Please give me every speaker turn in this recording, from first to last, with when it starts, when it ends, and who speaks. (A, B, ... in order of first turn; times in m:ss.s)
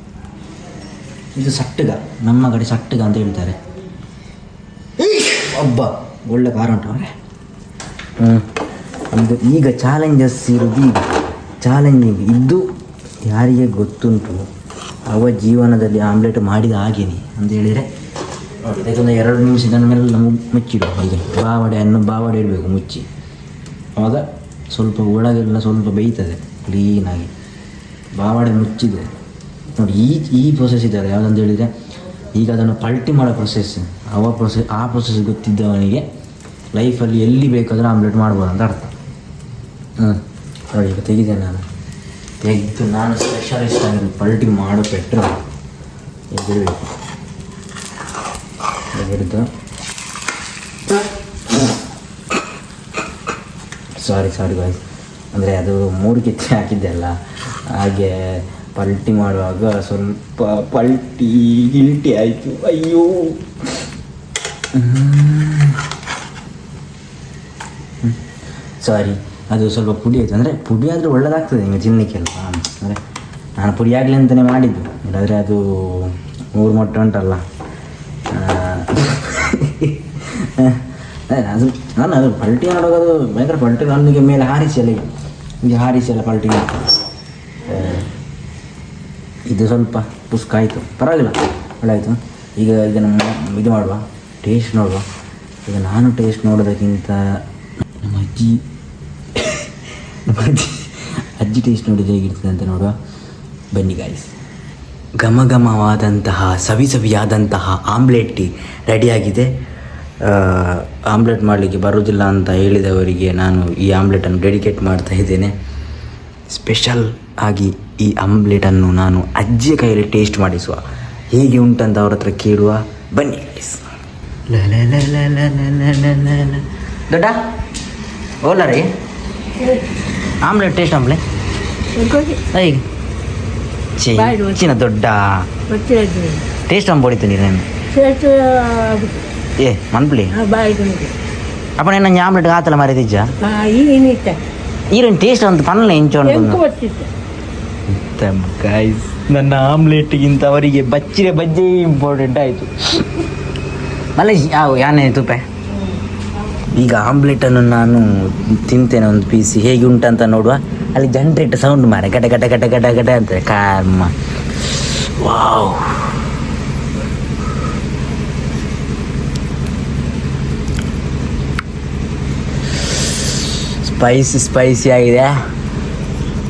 0:01.4-0:03.6 A
0:05.0-0:07.1 A
0:08.2-0:08.5 A
0:09.1-0:12.7 A
0:13.3-0:14.4 A
0:15.1-0:17.9 A
0:18.6-0:23.1 A
0:24.0-0:27.3 A
0:28.2-0:29.1 A
0:29.8-0:31.7 A
0:32.4-0:36.0 A
0:36.8-0:38.9 A
0:40.0-0:41.6 A
0:42.4-0:45.4 A
0:46.3-0:46.9 A
0:49.0-0:49.5 A
0:54.0-0:54.8 A
0:55.3-0:57.2 A
0:57.7-1:03.4 A
1:04.7-1:05.8 A
1:08.8-1:13.0 A
1:13.6-1:17.4 A
1:18.3-1:25.1 A
1:25.6-1:26.8 A
1:27.7-1:28.1 A
1:29.5-1:35.0 A
1:35.7-1:37.2 A
1:38.0-1:38.6 A
1:39.4-1:42.9 A
1:43.7-1:44.3 A
1:45.2-1:49.5 A
1:50.2-1:55.5 A
1:56.5-2:00.8 A
2:01.3-2:03.8 A
2:04.5-2:07.4 A
2:08.4-2:08.9 A
2:09.6-2:09.9 B
2:10.4-2:11.2 A
2:12.0-2:12.4 B
2:12.5-2:12.8 A
2:14.0-2:15.5 A
2:14.2-2:14.8 B
2:15.7-2:16.4 B
2:16.7-2:17.7 A
2:17.9-2:19.2 B
2:19.6-2:20.3 A
2:20.3-2:21.1 B
2:21.8-2:23.3 A
2:23.4-2:24.4 B
2:24.9-2:26.6 A
2:26.2-2:27.1 B
2:27.9-2:33.2 A
2:34.2-2:35.4 A
2:36.7-2:46.2 A
2:53.1-2:55.3 A